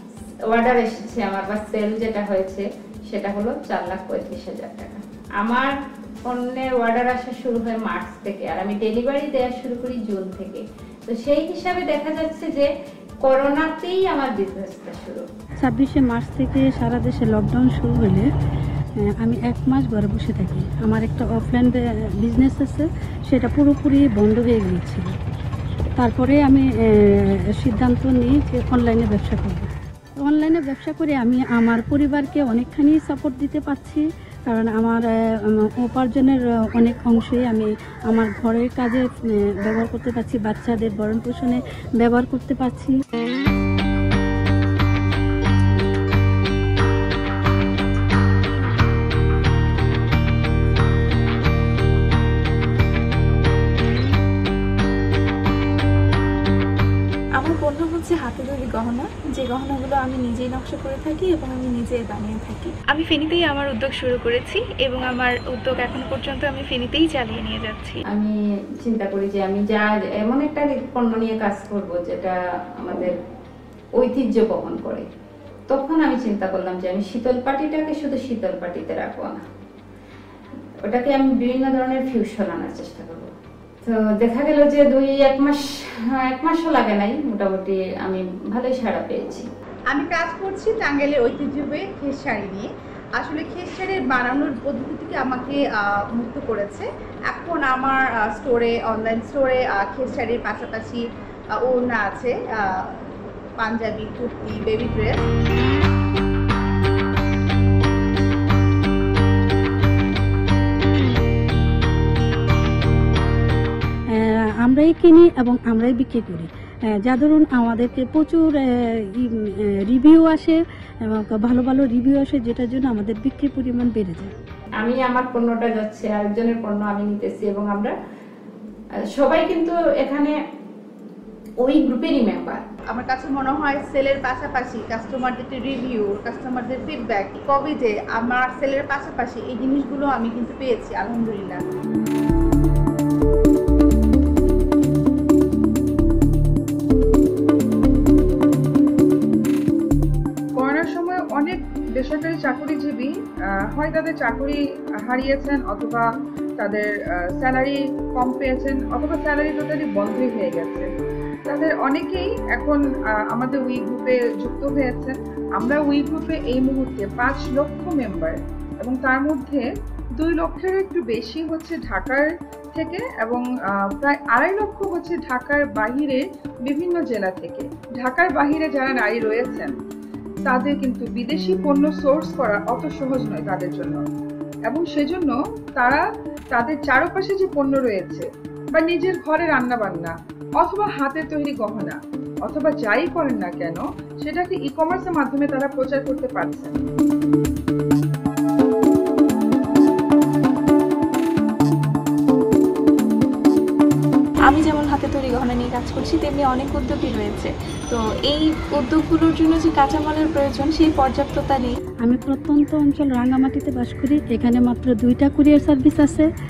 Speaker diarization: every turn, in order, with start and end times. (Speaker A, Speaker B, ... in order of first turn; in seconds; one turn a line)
Speaker A: 0.5-5.7
Speaker A: 6.2-12.7
Speaker A: 13.2-15.2
Speaker B: 15.6-18.3
Speaker B: 19.2-25.1
Speaker B: 26.0-29.7
Speaker B: 30.2-42.9
Speaker C: 57.4-68.0
Speaker A: 68.8-73.1
Speaker A: 74.0-75.0
Speaker A: 75.7-79.4
Speaker A: 80.8-83.3
Speaker A: 83.8-89.5
Speaker D: 89.9-101.0
Speaker D: 101.5-103.0
Speaker D: 103.6-105.3
Speaker B: 114.1-116.5
Speaker B: 117.0-119.3
Speaker B: 119.9-124.3
Speaker A: 124.8-127.9
Speaker A: 129.1-130.3
Speaker A: 131.6-132.6
Speaker D: 132.9-141.6
Speaker E: 150.6-153.2
Speaker E: 153.7-156.1
Speaker E: 156.6-160.9
Speaker E: 161.5-179.7
Speaker E: 180.4-184.0
Speaker E: 184.7-196.8
Speaker C: 204.5-211.8
Speaker B: 212.0-216.3